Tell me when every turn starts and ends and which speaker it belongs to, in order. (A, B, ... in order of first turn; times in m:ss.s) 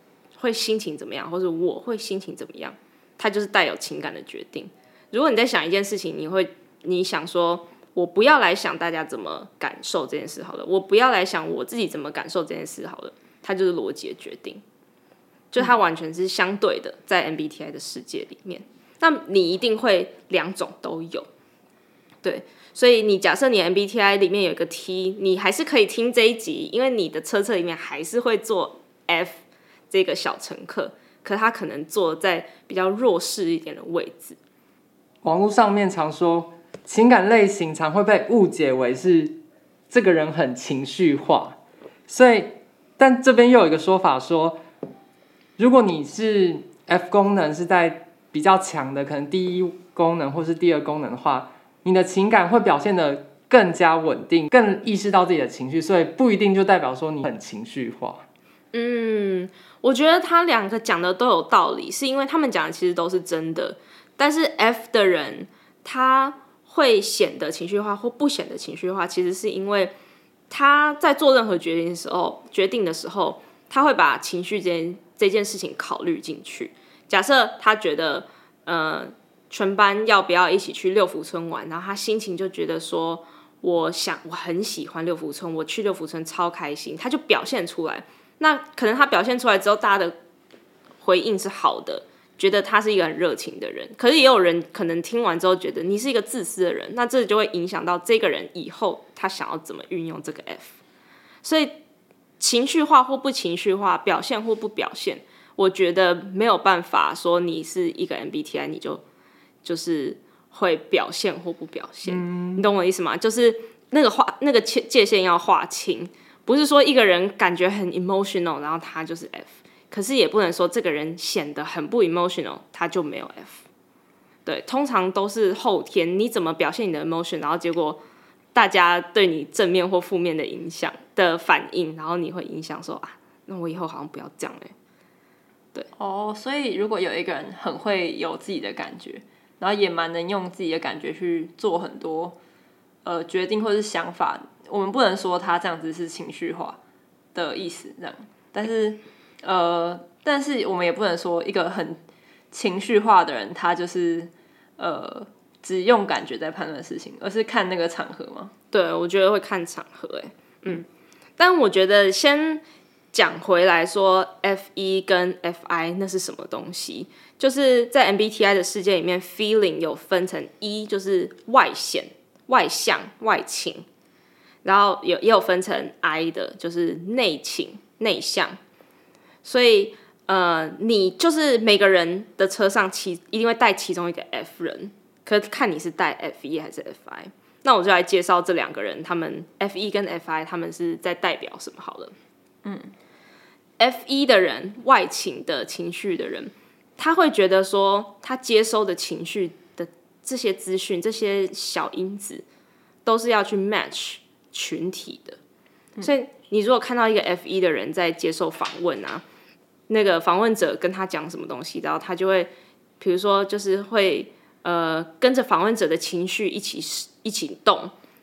0:00.4-0:14.6 A
0:15.5-0:21.3 A
0:22.2-0:34.4 A
0:35.2-0:39.4 B
0:39.9-0:41.6 B
0:42.1-0:44.6 B
0:45.6-0:58.2 B
0:58.7-1:09.9 A
1:10.5-1:30.2 A
1:31.0-1:40.8 A
1:41.4-1:41.7 A
1:42.4-1:49.0 A
1:49.6-2:03.6 A
1:52.0-1:52.6 B
2:04.4-2:08.0 A
2:08.5-2:14.7 A
2:16.0-2:22.4 C
2:23.0-2:26.8 C
2:27.3-2:32.0 C
2:32.5-2:38.5 C
2:38.7-2:40.8 A
2:41.4-2:53.8 A
2:54.6-2:58.6 A
2:59.4-3:12.1 A
3:12.6-3:12.9 C
3:13.8-3:22.4 A
3:23.0-3:25.4 A
3:26.0-3:29.2 A
3:29.9-3:37.9 A